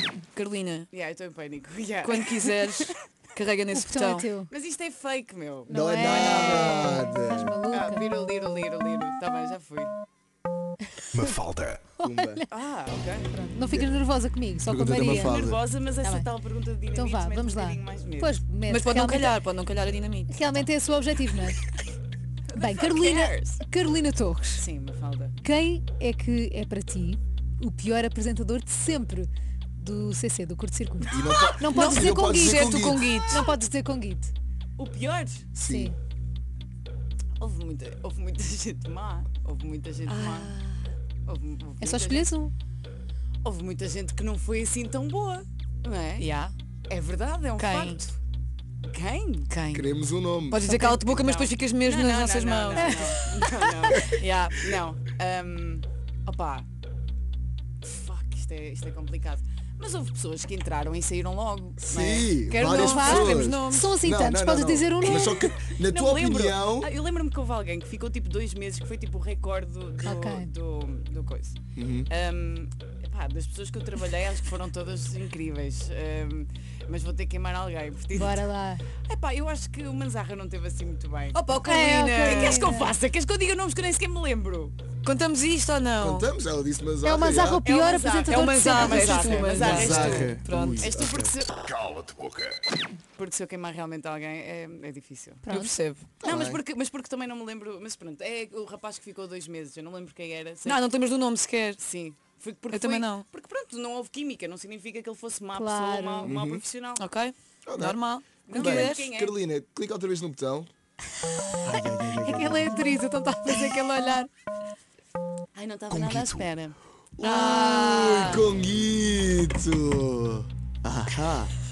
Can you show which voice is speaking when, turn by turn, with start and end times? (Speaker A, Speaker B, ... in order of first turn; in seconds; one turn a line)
Speaker A: 0.3-0.9
Speaker B: 0.9-2.9
Speaker A: 2.0-4.3
Speaker C: 3.7-4.5
Speaker B: 4.5-6.7
Speaker C: 5.7-8.1
Speaker D: 5.7-7.6
Speaker A: 6.2-6.6
Speaker B: 7.7-9.9
Speaker E: 11.1-11.9
Speaker D: 12.0-12.4
Speaker C: 12.0-12.5
Speaker B: 12.5-13.5
Speaker C: 13.4-15.5
Speaker D: 13.7-14.0
Speaker D: 14.6-15.6
Speaker B: 15.0-18.4
Speaker C: 16.0-16.3
Speaker C: 16.9-19.4
Speaker A: 18.7-20.6
Speaker C: 20.3-21.6
Speaker B: 22.5-23.6
Speaker C: 22.5-24.6
Speaker B: 24.5-25.4
Speaker C: 25.4-34.3
Speaker D: 31.1-33.0
Speaker A: 31.6-33.5
Speaker B: 34.8-35.5
Speaker D: 35.5-35.9
Speaker C: 35.6-36.0
Speaker B: 37.4-40.5
Speaker A: 40.1-41.0
Speaker B: 41.2-42.4
Speaker C: 41.8-42.5
Speaker B: 43.4-46.2
Speaker A: 46.2-46.5
Speaker B: 46.9-48.2
Speaker A: 47.6-48.0
Speaker B: 48.9-49.5
Speaker A: 49.5-49.9
Speaker D: 49.7-50.6
Speaker A: 50.5-53.1
Speaker C: 50.6-51.0
Speaker B: 50.8-56.7
Speaker C: 52.7-54.0
Speaker A: 54.0-54.7
Speaker B: 57.8-62.4
Speaker D: 61.8-66.9
Speaker A: 62.5-63.9
Speaker C: 62.6-65.3
Speaker B: 65.0-78.5
Speaker C: 70.0-70.5
Speaker D: 71.8-72.1
Speaker C: 78.1-78.8
Speaker B: 79.0-81.5
Speaker A: 81.3-82.6
Speaker C: 81.6-83.0
Speaker B: 82.2-84.7
Speaker A: 85.0-86.3
Speaker D: 86.0-87.7
Speaker C: 87.0-90.2
Speaker B: 87.6-91.5
Speaker A: 88.3-90.9
Speaker D: 89.5-91.3
Speaker E: 91.7-92.6
Speaker B: 93.2-95.5
Speaker C: 95.4-95.7
Speaker A: 95.5-96.0
Speaker D: 96.2-96.6
Speaker B: 96.2-100.8
Speaker A: 100.7-101.8
Speaker B: 101.8-107.1
Speaker A: 102.7-103.2
Speaker C: 105.5-106.3
Speaker D: 106.2-106.6
Speaker A: 107.0-109.1
Speaker D: 107.7-110.7
Speaker B: 108.5-109.4
Speaker D: 111.6-112.8
Speaker C: 111.8-114.3
Speaker A: 113.3-114.2
Speaker B: 115.5-116.8
Speaker E: 115.9-116.4
Speaker D: 117.2-121.5
Speaker A: 117.2-118.5